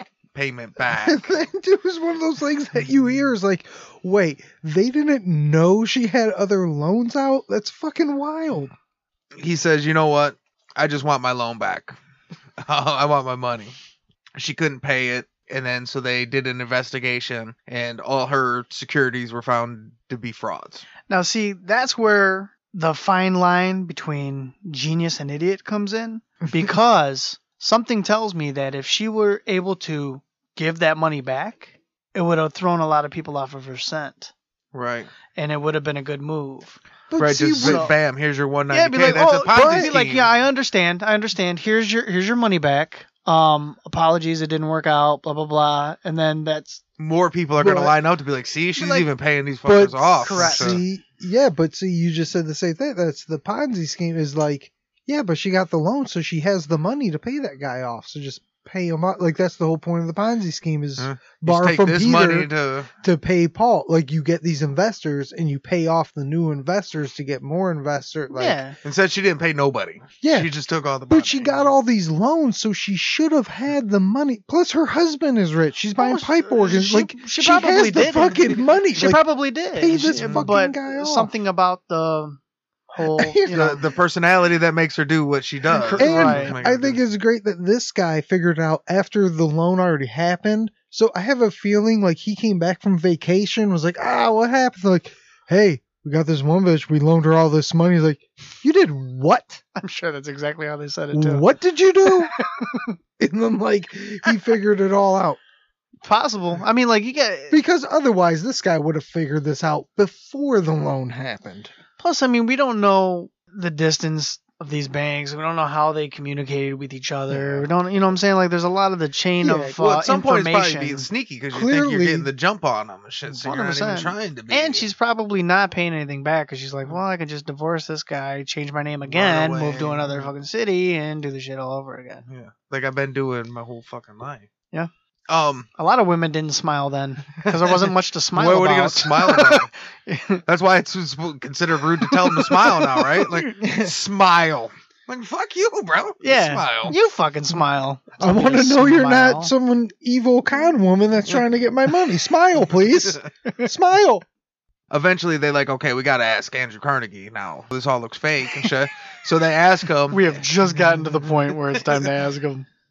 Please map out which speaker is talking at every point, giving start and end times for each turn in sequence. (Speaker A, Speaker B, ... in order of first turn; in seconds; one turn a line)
Speaker A: 0.3-1.3
Speaker B: 0.8-8.7
Speaker A: 9.4-12.0
Speaker A: 12.6-13.7
Speaker A: 14.4-20.9
Speaker C: 21.1-34.3
Speaker A: 34.7-35.1
Speaker C: 35.3-36.8
Speaker B: 37.1-37.9
Speaker A: 37.2-40.3
Speaker C: 37.6-37.9
Speaker C: 38.7-46.8
Speaker B: 39.5-39.9
Speaker A: 47.0-50.8
Speaker B: 47.6-48.0
Speaker B: 48.8-49.0
Speaker B: 49.6-62.5
Speaker C: 50.2-50.8
Speaker A: 61.0-62.9
Speaker B: 63.0-68.6
Speaker C: 68.3-68.8
Speaker A: 68.8-71.7
Speaker B: 70.2-70.5
Speaker B: 71.1-81.3
Speaker C: 76.0-82.4
Speaker A: 80.2-80.5
Speaker C: 82.9-83.8
Speaker B: 83.0-83.9
Speaker A: 83.5-87.0
Speaker C: 85.9-86.6
Speaker B: 85.9-99.6
Speaker C: 99.8-101.5
Speaker B: 101.1-102.3
Speaker C: 102.1-102.9
Speaker B: 103.2-105.4
Speaker C: 106.0-107.6
Speaker B: 107.5-111.7
Speaker C: 112.0-121.1
Speaker B: 119.4-119.7
Speaker A: 119.8-124.9
Speaker B: 121.5-122.3
Speaker C: 123.3-132.2
Speaker A: 129.1-130.3
Speaker A: 132.3-134.5
Speaker A: 135.3-135.7
Speaker C: 135.8-140.4
Speaker A: 137.4-139.7
Speaker A: 140.5-146.9
Speaker C: 142.2-143.3
Speaker B: 143.6-143.9
Speaker C: 146.2-149.5
Speaker B: 148.2-154.2
Speaker A: 154.9-160.3
Speaker C: 160.1-162.7